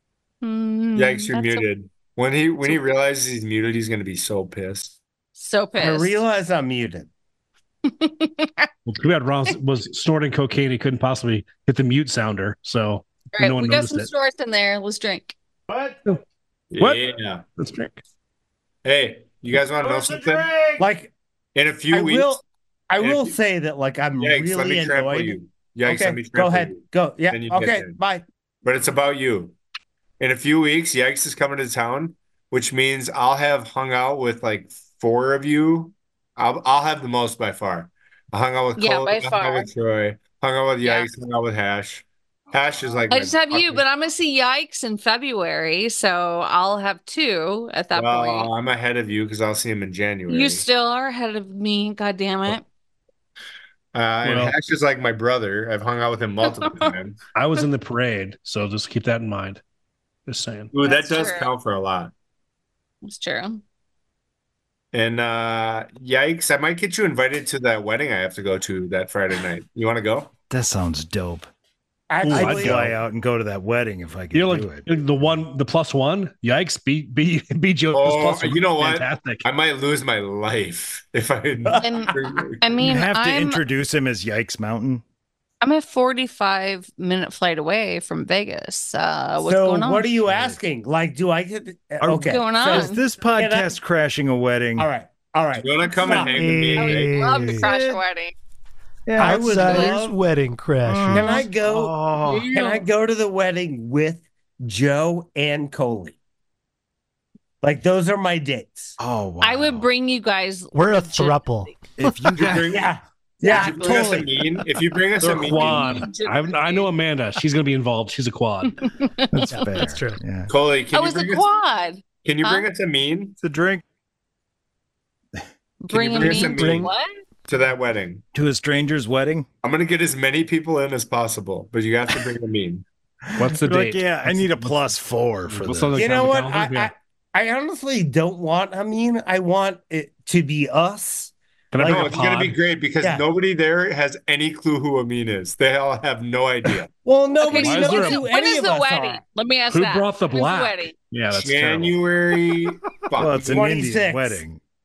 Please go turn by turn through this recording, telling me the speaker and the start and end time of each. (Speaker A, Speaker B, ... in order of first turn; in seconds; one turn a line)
Speaker A: 0.4-1.6
Speaker B: 0.9-5.0
Speaker A: 5.3-6.2
Speaker C: 5.8-7.1
Speaker A: 7.8-8.7
Speaker D: 8.8-14.1
Speaker A: 13.3-15.3
Speaker E: 15.7-16.0
Speaker B: 16.7-17.4
Speaker D: 17.6-18.0
Speaker B: 18.8-20.5
Speaker E: 19.8-20.9
Speaker C: 20.8-21.1
Speaker B: 21.5-22.4
Speaker C: 21.9-28.2
Speaker B: 23.0-23.3
Speaker B: 24.2-26.8
Speaker B: 27.3-27.9
Speaker B: 28.6-29.5
Speaker B: 30.2-43.8
Speaker A: 38.8-39.7
Speaker A: 40.8-41.1
Speaker A: 43.1-48.5
Speaker B: 47.9-50.6
Speaker A: 50.3-52.6
Speaker B: 53.9-57.2
Speaker D: 54.2-54.5
Speaker D: 57.3-59.6
Speaker D: 60.3-60.7
Speaker B: 60.7-62.1
Speaker A: 60.8-61.5
Speaker A: 63.0-63.6
Speaker B: 64.9-70.3
Speaker E: 70.5-71.5
Speaker C: 72.1-72.9
Speaker D: 72.2-72.9
Speaker E: 72.3-75.4
Speaker D: 74.3-79.4
Speaker B: 77.9-82.8
Speaker C: 81.6-82.4
Speaker A: 81.8-83.6
Speaker E: 82.8-85.0
Speaker A: 85.6-90.1
Speaker C: 89.4-93.8
Speaker E: 90.2-90.6
Speaker E: 92.0-94.9
Speaker A: 92.2-93.0
Speaker C: 94.8-96.4
Speaker B: 95.6-97.1
Speaker F: 96.3-97.7
Speaker A: 96.8-98.3
Speaker E: 97.5-98.0
Speaker E: 99.0-100.1
Speaker C: 99.2-100.1
Speaker F: 99.2-101.4
Speaker E: 100.8-102.5
Speaker C: 101.1-101.9
Speaker A: 102.3-102.8
Speaker C: 102.5-106.2
Speaker C: 107.6-109.0
Speaker E: 109.0-109.9
Speaker A: 109.4-111.7
Speaker F: 110.7-112.3
Speaker E: 112.0-112.7
Speaker B: 112.3-112.9
Speaker C: 112.7-114.4
Speaker A: 113.4-114.2
Speaker B: 113.4-116.1
Speaker D: 115.2-118.7
Speaker A: 115.4-116.9
Speaker A: 118.7-119.3
Speaker E: 119.3-120.5
Speaker F: 119.4-120.2
Speaker B: 120.5-121.5
Speaker A: 120.9-122.7
Speaker B: 122.2-123.3
Speaker E: 123.4-123.8
Speaker A: 125.8-127.1
Speaker B: 125.9-126.9
Speaker F: 126.1-126.9
Speaker B: 127.5-128.2
Speaker E: 128.3-129.4
Speaker B: 129.6-132.8
Speaker E: 133.3-136.0
Speaker D: 133.4-136.9
Speaker C: 135.9-142.2
Speaker D: 141.7-142.6
Speaker B: 141.8-146.9
Speaker C: 147.0-149.2
Speaker A: 147.4-150.9
Speaker D: 147.6-148.2
Speaker D: 149.7-152.0
Speaker B: 151.3-153.8
Speaker E: 153.2-154.6
Speaker C: 153.4-154.4